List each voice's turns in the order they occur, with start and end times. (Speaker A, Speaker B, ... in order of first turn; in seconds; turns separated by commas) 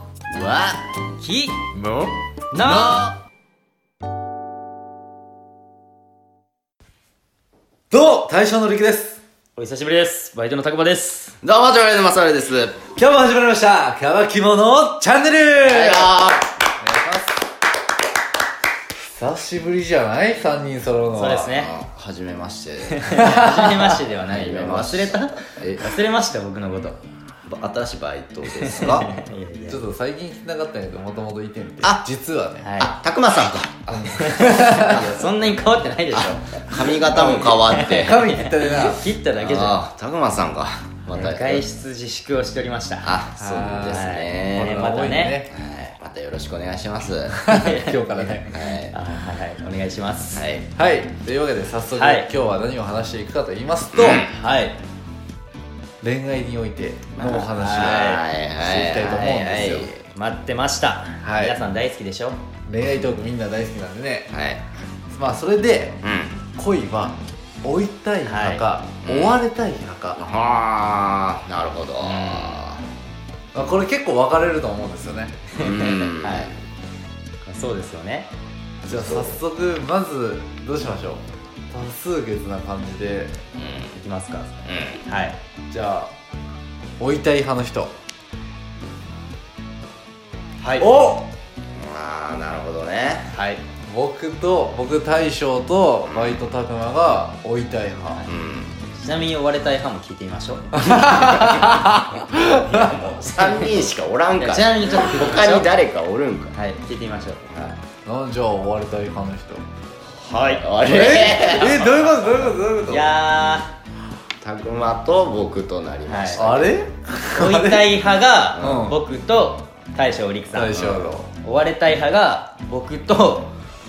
Speaker A: 0.3-0.8, Speaker B: 1.2-1.7, Speaker A: 1.7-3.2, Speaker B: 2.5-3.0, Speaker C: 7.9-9.2, Speaker B: 9.6-11.3, Speaker A: 11.4-12.8, Speaker C: 12.9-16.1, Speaker A: 15.6-16.5, Speaker C: 16.8-17.4, Speaker C: 19.1-21.6, Speaker B: 21.1-21.7, Speaker A: 21.5-23.4, Speaker B: 23.0-27.0, Speaker C: 23.1-23.9, Speaker A: 24.0-25.9, Speaker A: 27.4-29.1, Speaker B: 28.5-29.8, Speaker C: 29.7-32.7, Speaker A: 31.8-32.1, Speaker B: 32.6-33.0, Speaker A: 32.8-35.4, Speaker C: 33.9-35.0, Speaker B: 33.9-39.8, Speaker A: 36.1-38.2, Speaker C: 37.0-39.1, Speaker A: 39.4-41.6, Speaker B: 41.1-43.1, Speaker A: 43.0-44.7, Speaker C: 43.4-45.5, Speaker B: 43.9-45.4, Speaker A: 45.5-47.4, Speaker C: 47.3-48.6, Speaker B: 47.5-50.5, Speaker A: 48.5-48.9, Speaker A: 50.3-50.7, Speaker C: 50.8-54.2, Speaker B: 52.0-52.3, Speaker A: 53.9-54.3, Speaker B: 54.1-54.8, Speaker C: 56.0-59.9, Speaker A: 57.2-60.0, Speaker B: 57.5-58.2, Speaker B: 60.1-62.4, Speaker C: 61.2-61.5, Speaker C: 62.7-64.3, Speaker A: 64.3-64.6, Speaker C: 65.1-66.0, Speaker A: 66.0-66.4, Speaker C: 66.5-70.2, Speaker B: 68.2-68.6, Speaker A: 69.0-69.4, Speaker A: 70.2-72.8, Speaker B: 72.0-72.6, Speaker C: 73.5-75.5, Speaker B: 75.5-76.5, Speaker A: 75.6-76.6, Speaker B: 77.4-78.3, Speaker A: 78.8-79.4, Speaker C: 78.8-83.3, Speaker A: 83.6-83.9, Speaker B: 83.9-85.4, Speaker A: 84.7-85.0, Speaker C: 85.7-86.1, Speaker C: 87.0-87.9, Speaker B: 90.6-90.9, Speaker C: 90.8-91.3, Speaker A: 91.8-93.3, Speaker B: 93.3-93.6, Speaker C: 93.9-98.2, Speaker A: 96.0-96.4, Speaker A: 98.2-98.7, Speaker B: 98.9-101.5, Speaker C: 100.8-103.0, Speaker A: 101.0-101.5, Speaker A: 102.3-106.5, Speaker B: 103.0-103.6, Speaker B: 104.4-105.7, Speaker B: 106.5-107.8, Speaker C: 108.0-109.6, Speaker B: 110.2-111.5, Speaker A: 110.3-112.0, Speaker C: 110.8-113.1, Speaker B: 112.9-113.7, Speaker A: 114.4-116.7, Speaker B: 116.0-116.5, Speaker C: 116.4-117.9, Speaker B: 117.3-120.9, Speaker C: 118.6-119.0, Speaker C: 120.5-121.3, Speaker A: 120.7-121.1, Speaker B: 121.4-123.5